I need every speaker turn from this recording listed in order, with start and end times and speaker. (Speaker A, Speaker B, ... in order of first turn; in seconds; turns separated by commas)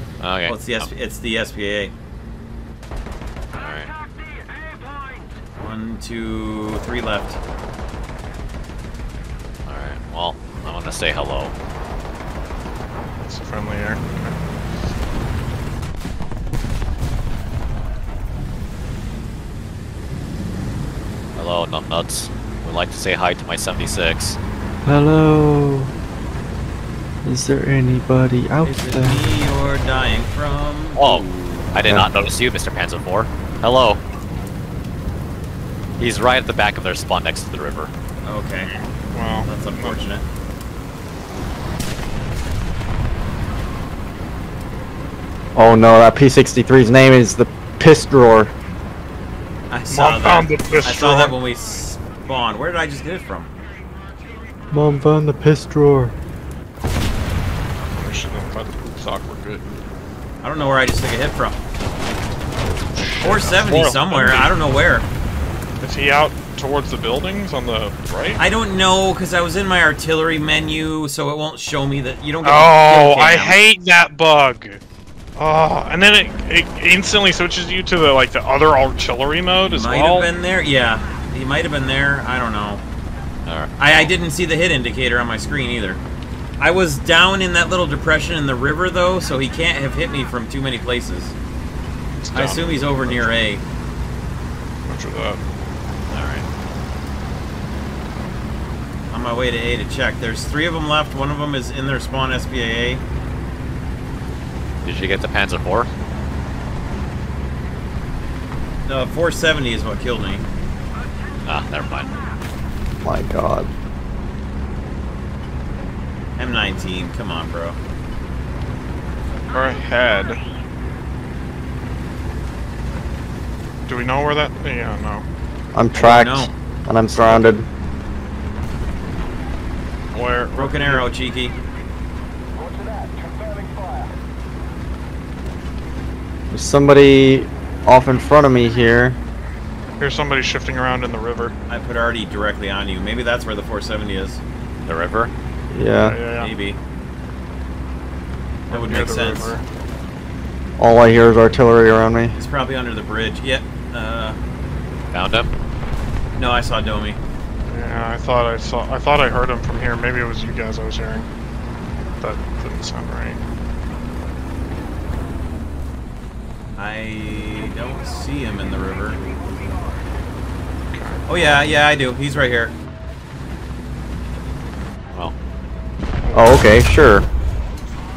Speaker A: 0.2-0.9, Speaker B: 0.5-1.9, Speaker A: 3.5-3.9, Speaker B: 5.6-7.4, Speaker A: 9.7-11.5, Speaker C: 13.2-14.4, Speaker A: 21.4-24.4, Speaker D: 24.9-25.9, Speaker D: 27.2-29.2, Speaker B: 28.6-32.0, Speaker A: 31.0-34.0, Speaker A: 36.0-37.9, Speaker B: 38.2-38.7, Speaker C: 38.7-40.0, Speaker B: 39.5-40.2, Speaker D: 45.5-48.5, Speaker B: 49.7-53.5, Speaker C: 49.9-51.4, Speaker D: 54.7-56.1, Speaker C: 58.0-59.7, Speaker B: 60.4-61.6, Speaker C: 63.0-64.5, Speaker B: 63.2-65.1, Speaker C: 65.8-68.4, Speaker B: 68.4-73.6, Speaker C: 72.4-74.8, Speaker C: 75.4-80.3, Speaker B: 79.7-82.8, Speaker A: 83.5-83.7, Speaker B: 83.8-86.0, Speaker B: 86.6-91.3, Speaker C: 92.2-93.4, Speaker B: 92.3-93.6, Speaker C: 94.9-95.4, Speaker B: 96.1-96.4, Speaker B: 99.1-103.0, Speaker A: 104.8-105.9, Speaker B: 108.9-110.5, Speaker A: 111.5-112.2, Speaker D: 113.0-113.7, Speaker B: 116.4-117.8, Speaker C: 119.5-120.4, Speaker C: 123.9-125.2, Speaker D: 125.7-127.7, Speaker B: 126.0-126.5, Speaker B: 127.2-127.5, Speaker C: 130.1-131.1, Speaker B: 130.6-131.6, Speaker D: 136.5-139.2, Speaker C: 140.0-141.5, Speaker B: 141.7-144.4, Speaker A: 144.8-145.3, Speaker D: 145.7-146.2, Speaker C: 146.0-146.5, Speaker B: 146.4-146.8, Speaker C: 148.7-149.6, Speaker B: 148.7-149.6, Speaker D: 150.8-152.4, Speaker B: 152.4-154.4, Speaker A: 155.1-155.5, Speaker B: 156.4-157.2, Speaker C: 157.7-161.3, Speaker C: 162.2-163.4, Speaker B: 166.8-169.2, Speaker C: 170.9-171.2, Speaker B: 171.3-172.8, Speaker C: 176.3-176.7, Speaker D: 176.3-177.3